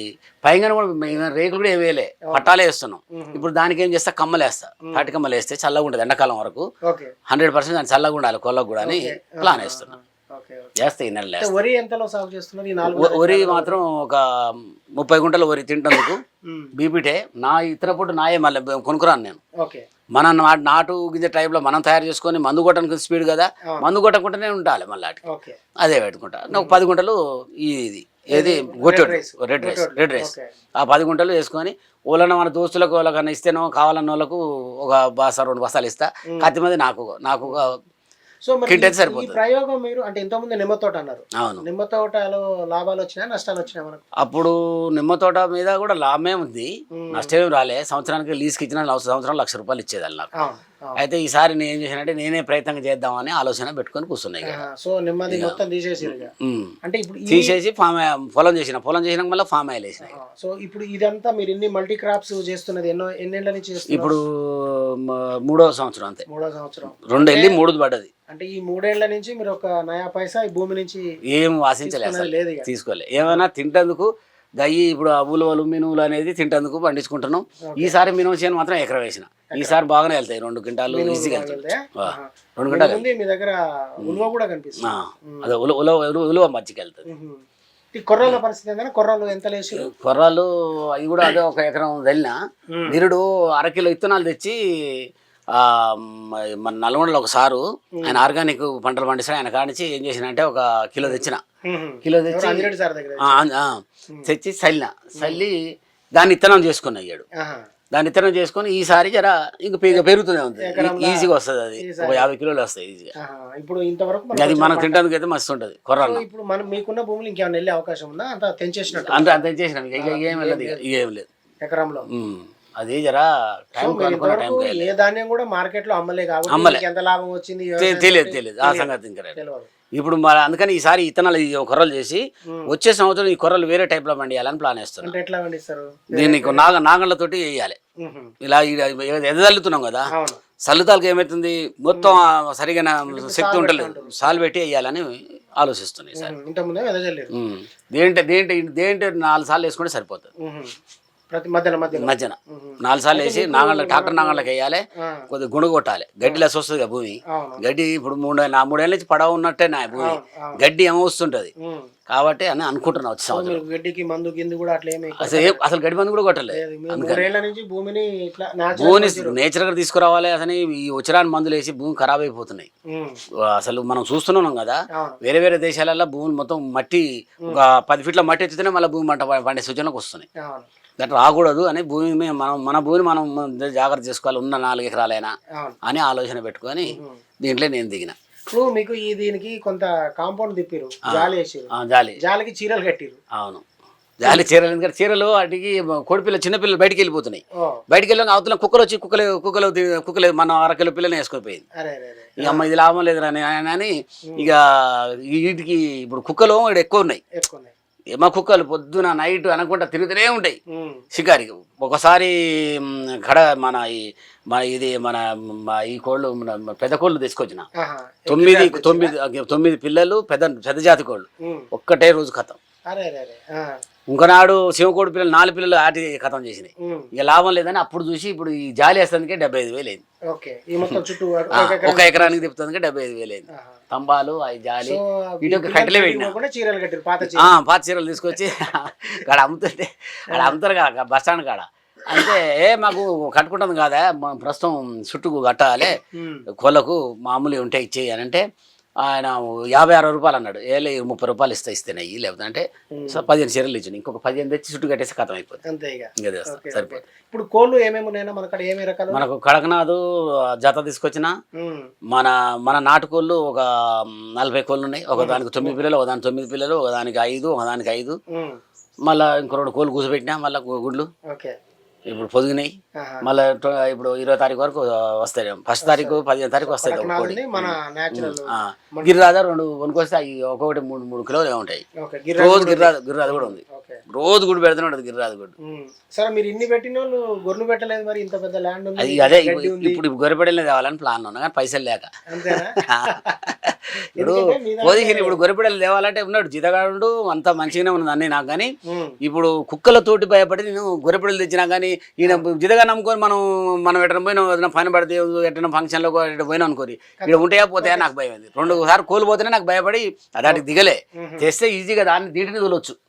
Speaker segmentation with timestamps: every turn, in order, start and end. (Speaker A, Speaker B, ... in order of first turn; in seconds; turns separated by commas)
Speaker A: 0.4-6.7, Speaker B: 3.1-3.4, Speaker B: 6.9-7.1, Speaker A: 7.3-9.9, Speaker B: 8.8-10.7, Speaker A: 10.8-11.5, Speaker B: 11.4-13.8, Speaker A: 12.9-16.2, Speaker A: 16.8-19.4, Speaker A: 20.1-25.2, Speaker B: 25.3-25.6, Speaker A: 25.8-37.7, Speaker B: 26.5-26.8, Speaker B: 28.3-30.5, Speaker B: 38.5-44.0, Speaker A: 38.7-39.4, Speaker A: 41.4-41.6, Speaker A: 44.2-50.3, Speaker B: 47.0-47.3, Speaker B: 50.4-51.0, Speaker A: 51.0-54.6, Speaker B: 54.4-56.3, Speaker A: 55.3-56.7, Speaker B: 56.8-57.5, Speaker A: 57.3-60.1, Speaker B: 60.0-64.2, Speaker A: 63.9-66.2, Speaker B: 66.3-67.6, Speaker A: 67.1-68.1, Speaker B: 68.3-71.0, Speaker A: 71.3-83.0, Speaker B: 71.8-72.7, Speaker B: 77.7-77.9, Speaker B: 79.5-79.8, Speaker B: 80.9-85.5, Speaker A: 84.8-87.0, Speaker B: 87.1-87.4, Speaker B: 87.9-89.9, Speaker A: 89.7-92.4, Speaker B: 92.7-93.0, Speaker A: 92.9-101.4, Speaker B: 101.0-103.4, Speaker A: 102.0-102.7, Speaker A: 103.2-105.5, Speaker B: 105.2-105.4, Speaker A: 106.1-107.2, Speaker B: 107.4-107.7, Speaker A: 107.9-113.1, Speaker B: 110.6-111.3, Speaker B: 111.8-112.3, Speaker B: 113.2-115.0, Speaker A: 114.3-116.2, Speaker B: 116.0-119.4, Speaker A: 119.0-121.2, Speaker B: 120.0-120.8, Speaker B: 121.6-122.1, Speaker A: 122.1-124.9, Speaker B: 123.8-129.7, Speaker A: 126.5-126.8, Speaker A: 127.8-129.3, Speaker A: 129.9-135.1, Speaker B: 135.0-136.6, Speaker A: 136.1-137.8, Speaker B: 138.0-138.3, Speaker A: 138.4-140.1, Speaker B: 140.1-140.4, Speaker A: 140.6-146.3, Speaker B: 143.1-144.3, Speaker B: 146.2-147.3, Speaker A: 147.3-150.3, Speaker B: 150.4-150.7, Speaker B: 151.3-154.5, Speaker A: 151.9-161.5, Speaker B: 157.3-157.6, Speaker B: 160.0-160.6, Speaker B: 161.6-161.9, Speaker A: 162.1-163.6, Speaker B: 163.3-165.6, Speaker A: 165.2-167.2, Speaker B: 166.5-169.4, Speaker A: 168.7-172.7, Speaker B: 172.9-173.2, Speaker A: 173.4-180.3, Speaker B: 180.4-180.7, Speaker A: 181.0-185.3, Speaker A: 185.8-188.1, Speaker B: 186.9-187.2, Speaker B: 188.5-193.2, Speaker A: 191.2-192.2, Speaker A: 193.3-193.6, Speaker A: 194.2-201.6, Speaker B: 201.8-202.7, Speaker A: 202.4-207.2, Speaker B: 207.3-207.7, Speaker A: 208.1-210.6, Speaker B: 210.7-211.0, Speaker A: 211.1-217.7, Speaker B: 217.8-219.1, Speaker A: 218.3-222.6, Speaker B: 222.9-223.8, Speaker A: 224.1-230.0, Speaker B: 226.8-227.1, Speaker B: 230.3-232.4, Speaker A: 231.6-236.3, Speaker B: 233.5-233.8, Speaker B: 234.8-237.5, Speaker A: 237.2-246.0, Speaker B: 246.1-246.4, Speaker A: 246.6-248.4, Speaker A: 249.0-255.6, Speaker B: 252.9-253.2, Speaker B: 255.7-259.2, Speaker A: 256.2-257.0, Speaker A: 259.1-260.0, Speaker A: 260.6-261.3, Speaker B: 261.6-261.9, Speaker A: 262.1-268.2, Speaker B: 265.2-265.8, Speaker B: 268.3-268.6, Speaker A: 269.0-271.1, Speaker A: 272.1-272.7, Speaker A: 273.2-281.8, Speaker B: 275.8-279.1, Speaker B: 282.0-284.0, Speaker A: 282.4-283.6, Speaker A: 284.1-285.5, Speaker B: 285.6-290.0, Speaker A: 289.0-298.7, Speaker B: 292.3-293.4, Speaker B: 294.2-295.4, Speaker B: 298.9-299.2, Speaker A: 299.2-313.0, Speaker B: 307.2-308.1, Speaker B: 311.2-311.5